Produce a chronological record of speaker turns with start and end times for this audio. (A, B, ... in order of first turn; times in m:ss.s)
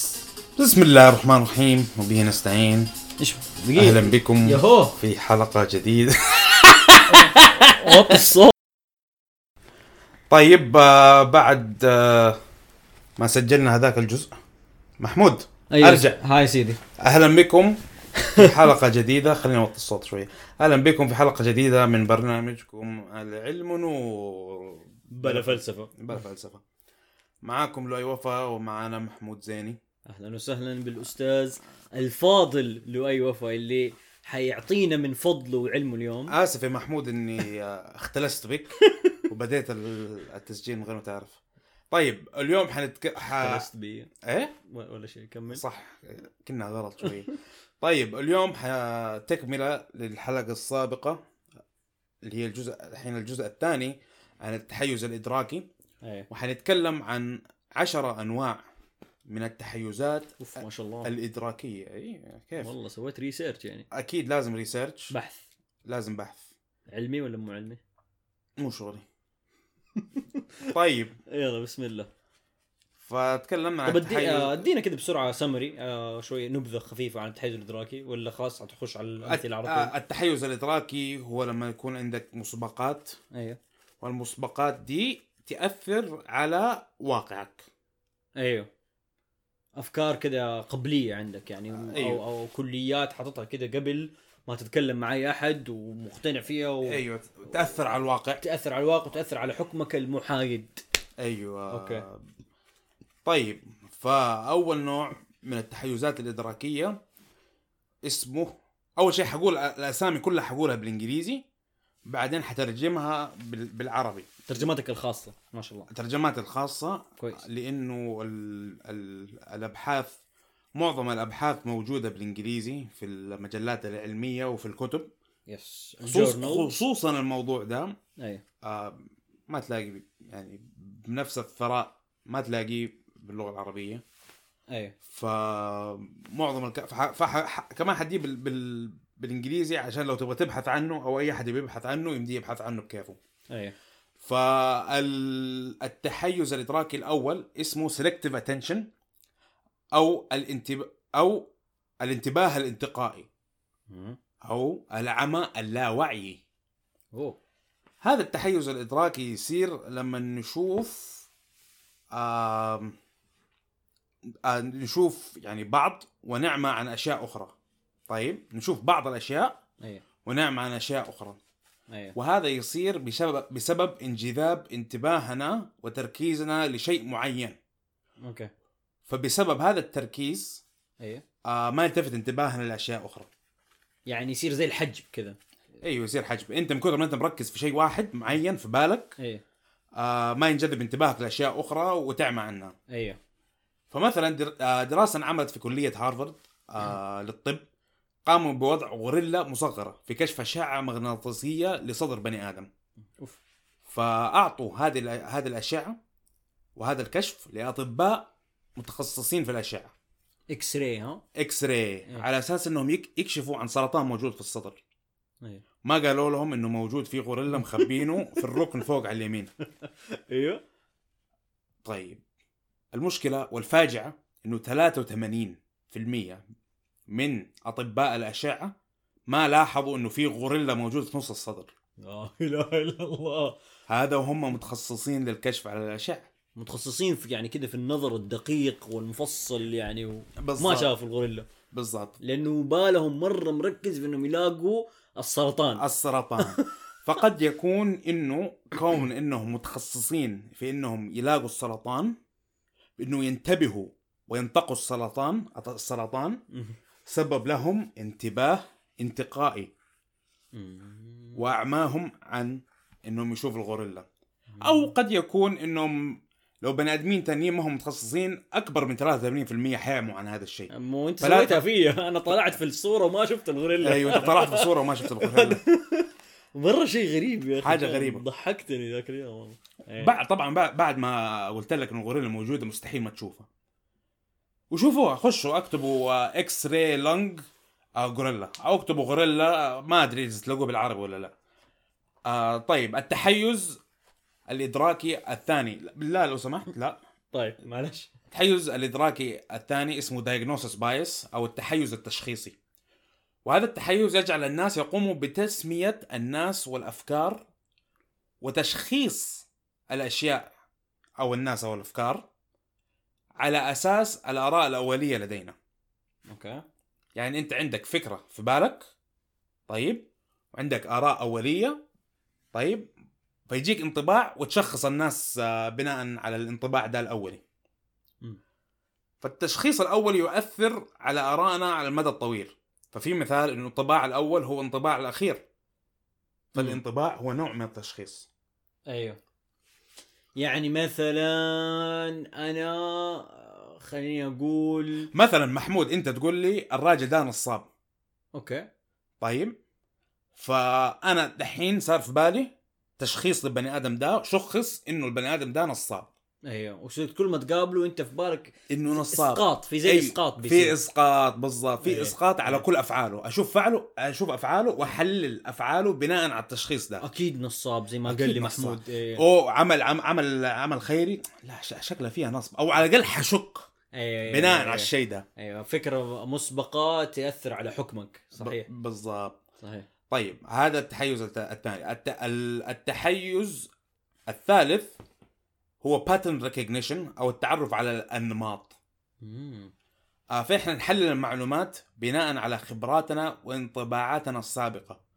0:00.6-0:02.9 A
0:03.2-0:05.0 B
0:03.7-0:08.2 A
0:07.0-0:08.5 B
0:10.3-0:12.4 A
0:13.2-0:14.3 A
0:15.0-0:16.2 A
0:15.7-0:16.8 B
0:17.0-0:17.8 A
0:18.2-0:18.6 B
0:18.3-0:26.6 A
0:25.1-0:25.9 B
0:27.4-0:29.8 A
0:30.1-0:36.3 B
0:36.3-0:41.4 A
0:38.9-0:39.2 B
0:41.9-0:43.6 A
0:43.2-0:44.1 B
0:44.2-0:44.5 A
0:44.7-0:45.6 B
0:45.5-0:51.2 A
0:52.2-0:55.7 A
0:56.0-0:56.3 B
0:56.3-0:58.6 A
0:59.3-1:00.4 A
1:00.4-1:01.1 B
1:01.0-1:02.7 A
1:02.6-1:03.8 B
1:03.9-1:05.1 A
1:05.1-1:05.4 B
1:05.8-1:06.4 A
1:06.9-1:07.8 B
1:08.6-1:09.0 A
1:10.0-1:10.7 B
1:10.7-1:11.2 A
1:11.3-1:12.1 B
1:13.0-1:14.6 A
1:13.8-1:19.9 B
1:19.2-1:23.2 A
1:23.3-1:23.6 B
1:24.0-1:27.7 A
1:28.4-1:28.7 B
1:29.8-1:37.6 B
1:31.7-1:32.2 A
1:36.8-1:38.4 A
1:38.4-1:40.8 B
1:41.2-1:42.2 A
1:41.7-1:42.0 B
1:43.2-1:47.0 A
1:48.0-1:51.4 A
1:52.1-1:54.7 A
1:54.5-1:55.9 B
1:55.9-2:00.2 A
2:00.7-2:05.1 A
2:05.5-2:06.8 B
2:06.0-2:07.9 A
2:08.6-2:14.0 A
2:14.7-2:15.0 B
2:15.1-2:23.2 A
2:24.2-2:28.9 A
2:29.9-2:31.5 A
2:32.0-2:33.3 A
2:33.9-2:34.2 B
2:34.4-2:36.4 A
2:38.0-2:41.3 A
2:42.1-2:43.0 A
2:44.4-2:47.5 A
2:48.1-2:49.6 A
2:50.2-2:51.4 A
2:51.9-2:52.2 B
2:52.1-2:57.6 A
2:58.2-2:58.5 B
2:59.1-3:00.6 A
3:01.4-3:03.3 A
3:04.1-3:05.4 B
3:05.8-3:09.2 A
3:10.0-3:12.8 A
3:12.9-3:13.2 B
3:13.9-3:17.6 A
3:18.2-3:22.7 A
3:23.9-3:26.0 A
3:26.8-3:29.9 A
3:30.5-3:31.2 B
3:31.3-3:34.8 A
3:35.8-3:39.5 A
3:37.6-3:38.6 B
3:39.8-3:40.6 B
3:41.8-3:42.2 A
3:42.9-3:46.4 A
3:47.1-3:48.7 A
3:49.3-3:51.7 A
3:52.0-3:53.6 B
3:53.9-3:56.3 A
3:56.6-4:01.4 B
4:00.4-4:00.9 A
4:01.7-4:02.2 A
4:02.2-4:05.8 B
4:05.8-4:12.1 A
4:06.4-4:06.7 B
4:13.0-4:16.4 A
4:17.0-4:19.7 A
4:20.5-4:21.5 B
4:21.4-4:24.0 A
4:24.5-4:24.9 B
4:24.6-4:31.6 A
4:30.7-4:40.1 B
4:33.8-4:35.6 A
4:37.6-4:38.2 A
4:40.0-4:43.5 A
4:44.7-4:47.4 A
4:48.0-4:51.3 A
4:52.2-4:53.8 A
4:54.5-4:57.0 A
4:57.3-4:58.1 B
4:58.3-5:02.6 A
5:03.4-5:07.4 A
5:08.4-5:10.5 A
5:11.2-5:12.2 A
5:13.4-5:15.5 A
5:16.3-5:16.6 B
5:17.2-5:18.8 A
5:19.7-5:21.8 A
5:22.5-5:22.9 A
5:23.5-5:27.4 A
5:29.2-5:35.4 A
5:36.5-5:38.3 A
5:38.9-5:39.2 B
5:40.4-5:45.1 B
5:45.1-5:47.7 A
5:48.3-5:48.6 B
5:49.2-5:49.5 A
5:50.3-5:56.1 A
5:56.5-6:00.7 B
5:58.7-6:07.0 A
6:01.8-6:02.6 B
6:07.0-6:09.2 B
6:08.0-6:13.7 A
6:13.9-6:18.7 B
6:14.3-6:15.2 A
6:18.4-6:19.4 A
6:19.6-6:19.9 B
6:20.1-6:23.7 A
6:24.3-6:25.0 A
6:25.8-6:28.8 A
6:29.2-6:29.7 B
6:30.3-6:35.0 A